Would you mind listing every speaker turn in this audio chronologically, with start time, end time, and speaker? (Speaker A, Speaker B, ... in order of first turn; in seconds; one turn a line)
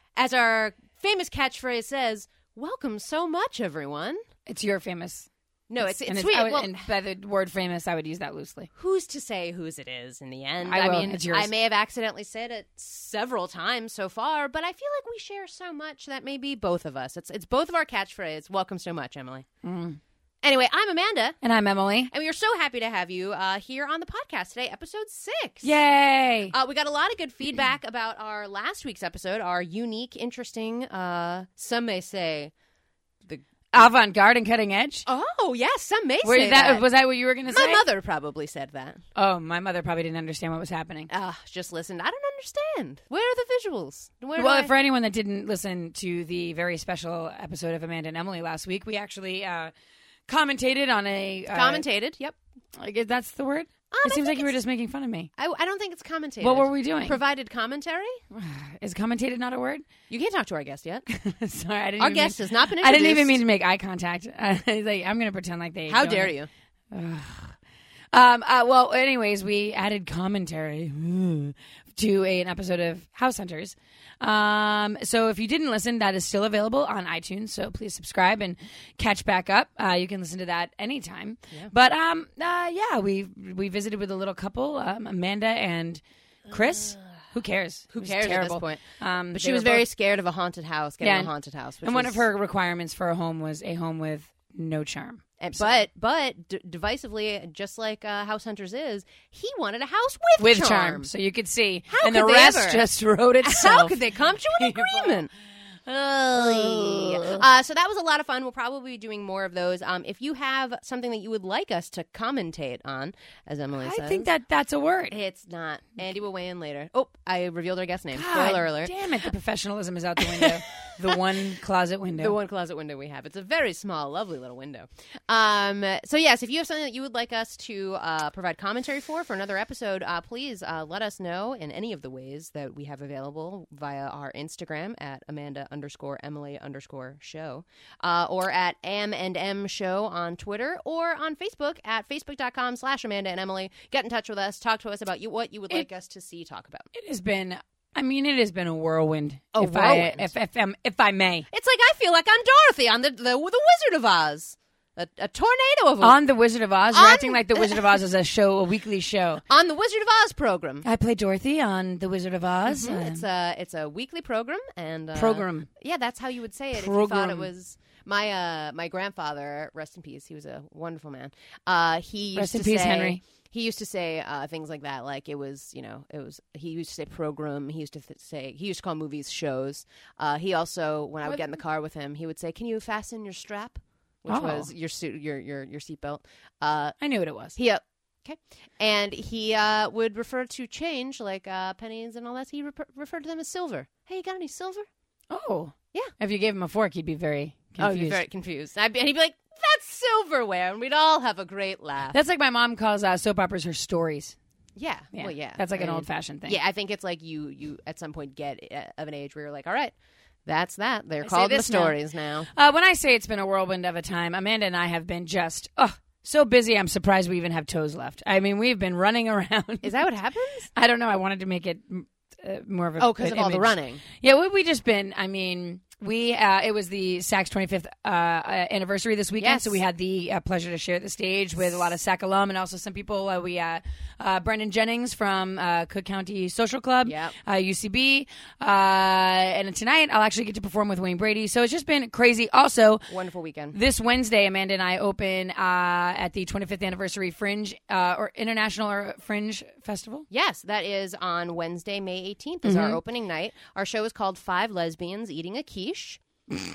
Speaker A: 0.1-4.2
Speaker B: 4.5-5.3
Speaker A: 5.7-6.8
Speaker B: 5.8-8.7
Speaker A: 8.7-19.4
Speaker B: 10.6-11.5
Speaker B: 19.6-20.0
Speaker A: 20.4-21.4
Speaker B: 21.4-22.1
Speaker A: 22.1-25.7
Speaker B: 25.6-26.5
Speaker A: 26.5-32.5
Speaker A: 33.3-33.9
Speaker B: 33.7-35.0
Speaker A: 35.0-36.9
Speaker B: 36.2-37.8
Speaker A: 37.5-39.0
Speaker B: 39.1-41.1
Speaker A: 41.1-44.7
Speaker B: 44.4-49.7
Speaker B: 50.3-51.8
Speaker A: 51.5-52.3
Speaker B: 52.8-55.3
Speaker A: 53.9-54.5
Speaker A: 55.4-58.2
Speaker B: 56.4-57.2
Speaker B: 58.3-59.9
Speaker A: 60.1-61.0
Speaker B: 61.1-66.3
Speaker A: 62.0-63.4
Speaker A: 65.9-66.5
Speaker B: 66.9-67.5
Speaker B: 68.1-89.8
Speaker A: 87.9-88.8
Speaker A: 89.3-92.2
Speaker B: 91.0-91.3
Speaker B: 91.8-95.8
Speaker A: 95.4-101.1
Speaker B: 100.4-104.0
Speaker A: 101.9-102.9
Speaker A: 103.4-105.3
Speaker B: 104.5-105.2
Speaker A: 105.8-114.3
Speaker B: 106.3-107.4
Speaker B: 113.8-115.2
Speaker A: 115.1-118.9
Speaker B: 118.1-122.4
Speaker A: 120.2-121.2
Speaker A: 122.2-146.9
Speaker B: 146.9-151.4
Speaker A: 149.5-150.3
Speaker A: 151.5-156.2
Speaker B: 156.0-159.4
Speaker A: 156.9-158.0
Speaker A: 159.5-160.8
Speaker B: 160.8-163.2
Speaker A: 162.7-187.0
Speaker B: 165.1-165.7
Speaker B: 166.7-167.5
Speaker B: 172.3-173.2
Speaker B: 184.3-184.7
Speaker B: 187.0-187.6
Speaker A: 187.5-194.9
Speaker B: 195.3-198.2
Speaker A: 197.8-202.2
Speaker B: 202.1-204.3
Speaker A: 204.8-209.9
Speaker B: 205.1-206.6
Speaker A: 210.5-212.5
Speaker B: 211.2-212.0
Speaker B: 212.5-220.0
Speaker A: 219.8-220.7
Speaker B: 220.7-243.1
Speaker A: 223.0-224.0
Speaker A: 229.4-229.8
Speaker A: 237.0-237.3
Speaker A: 243.1-243.8
Speaker B: 243.7-250.2
Speaker A: 250.3-256.2
Speaker B: 252.6-253.0